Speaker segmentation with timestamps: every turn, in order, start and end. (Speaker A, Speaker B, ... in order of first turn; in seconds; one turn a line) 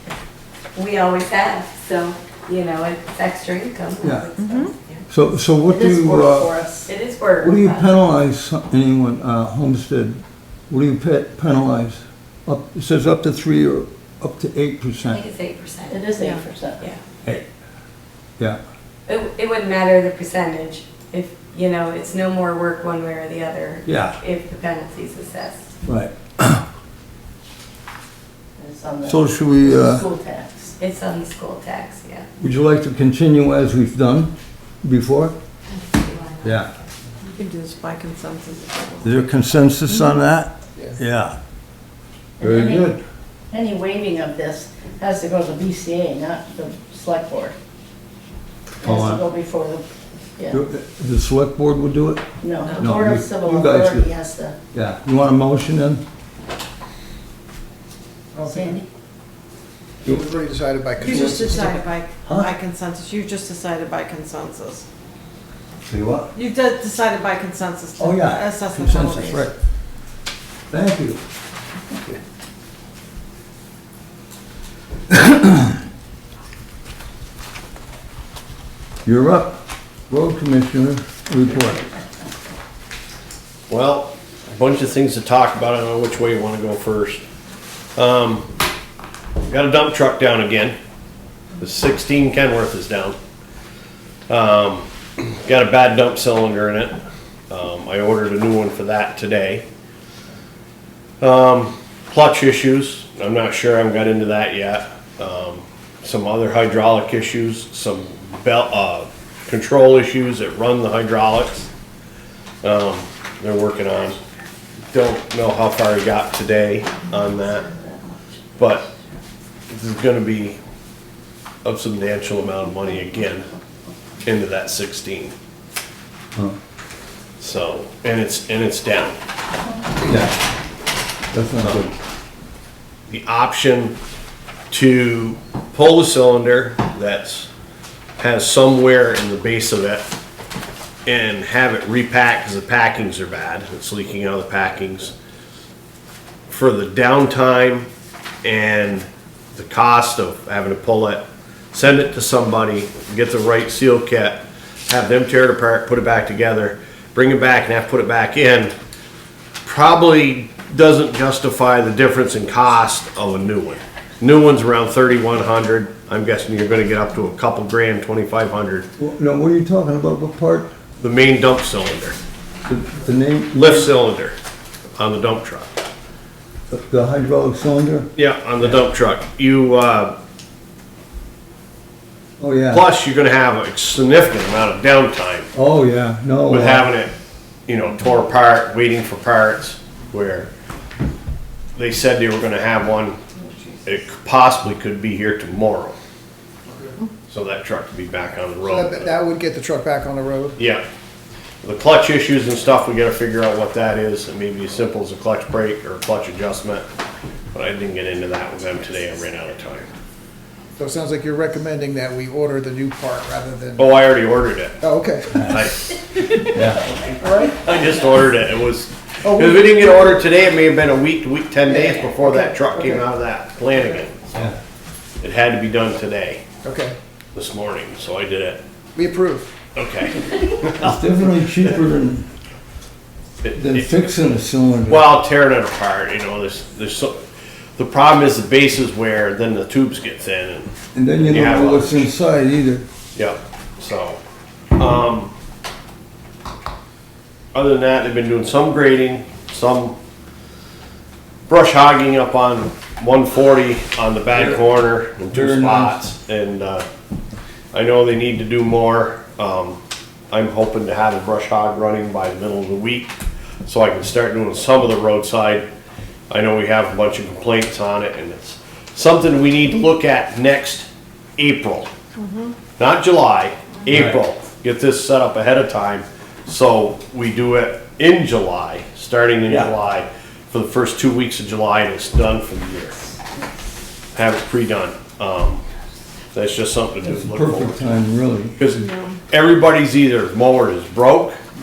Speaker A: 0.8-5.0
Speaker B: 4.0-4.3
Speaker C: 4.4-4.7
Speaker B: 5.1-6.5
Speaker D: 5.7-6.9
Speaker A: 6.9-7.9
Speaker B: 7.4-15.2
Speaker A: 15.1-16.1
Speaker D: 15.9-16.9
Speaker C: 16.2-16.5
Speaker A: 19.1-25.7
Speaker B: 23.9-24.2
Speaker B: 25.9-26.6
Speaker D: 28.6-30.8
Speaker B: 29.1-30.1
Speaker A: 30.8-32.3
Speaker B: 32.4-35.4
Speaker A: 35.7-36.7
Speaker B: 36.4-36.7
Speaker C: 37.3-39.1
Speaker B: 39.0-41.4
Speaker C: 39.9-40.1
Speaker D: 42.4-43.0
Speaker B: 42.4-43.0
Speaker D: 43.5-47.5
Speaker D: 48.8-49.9
Speaker B: 48.8-49.2
Speaker D: 50.4-50.6
Speaker B: 50.5-52.2
Speaker D: 52.4-54.6
Speaker A: 52.6-53.0
Speaker B: 52.8-54.1
Speaker B: 54.7-56.0
Speaker E: 58.3-58.8
Speaker D: 58.4-58.9
Speaker E: 60.0-61.8
Speaker C: 61.0-64.8
Speaker B: 62.2-62.5
Speaker B: 65.9-66.3
Speaker C: 66.3-69.5
Speaker B: 68.0-69.5
Speaker B: 70.7-71.2
Speaker B: 75.1-75.8
Speaker B: 79.0-81.8
Speaker F: 83.7-87.2
Speaker F: 88.0-88.5
Speaker F: 89.4-90.8
Speaker F: 91.6-93.2
Speaker F: 94.3-97.0
Speaker F: 97.5-99.7
Speaker F: 101.2-111.7
Speaker F: 112.6-114.2
Speaker F: 114.9-117.8
Speaker F: 118.6-118.9
Speaker F: 119.7-120.6
Speaker F: 121.6-123.5
Speaker F: 124.2-125.3
Speaker F: 127.4-129.2
Speaker B: 130.1-130.4
Speaker B: 131.3-131.9
Speaker F: 133.1-134.0
Speaker F: 134.7-137.5
Speaker F: 138.2-140.0
Speaker F: 141.1-145.1
Speaker F: 146.5-147.9
Speaker F: 148.4-158.7
Speaker F: 159.7-168.9
Speaker B: 169.0-170.7
Speaker F: 171.0-172.2
Speaker B: 172.7-173.9
Speaker F: 173.5-174.3
Speaker F: 175.0-175.7
Speaker B: 176.7-178.1
Speaker F: 178.2-180.1
Speaker B: 182.4-182.8
Speaker F: 182.7-185.5
Speaker B: 185.5-186.9
Speaker F: 186.5-187.1
Speaker F: 187.7-190.5
Speaker F: 191.8-193.2
Speaker F: 193.8-196.0
Speaker E: 196.7-197.0
Speaker F: 197.3-199.1
Speaker E: 198.6-200.6
Speaker F: 200.6-200.8
Speaker F: 201.6-206.9
Speaker F: 207.5-209.9
Speaker E: 210.8-213.9
Speaker F: 213.8-214.8
Speaker E: 214.8-215.6
Speaker B: 215.4-215.6
Speaker F: 215.4-216.3
Speaker B: 216.5-216.8
Speaker E: 217.2-217.6
Speaker F: 217.6-224.5
Speaker E: 219.2-220.3
Speaker E: 221.7-223.0
Speaker F: 225.2-226.4
Speaker E: 226.6-227.0
Speaker F: 227.3-228.6
Speaker E: 228.9-229.5
Speaker F: 229.8-230.9
Speaker B: 230.8-232.3
Speaker F: 233.4-234.1
Speaker B: 233.5-235.1
Speaker F: 234.9-237.2
Speaker F: 237.8-240.7
Speaker B: 240.9-242.8
Speaker F: 241.2-242.1
Speaker F: 243.2-244.2
Speaker F: 244.8-245.3
Speaker F: 247.5-250.0
Speaker F: 251.5-256.9
Speaker B: 254.3-254.7
Speaker B: 255.3-256.0
Speaker F: 257.7-259.8
Speaker F: 260.3-263.1
Speaker F: 263.6-265.7
Speaker F: 266.3-271.9
Speaker C: 272.2-272.6
Speaker F: 272.8-283.0
Speaker B: 273.9-274.2
Speaker F: 284.1-285.6
Speaker F: 286.3-288.0
Speaker B: 287.0-288.6
Speaker F: 288.6-291.4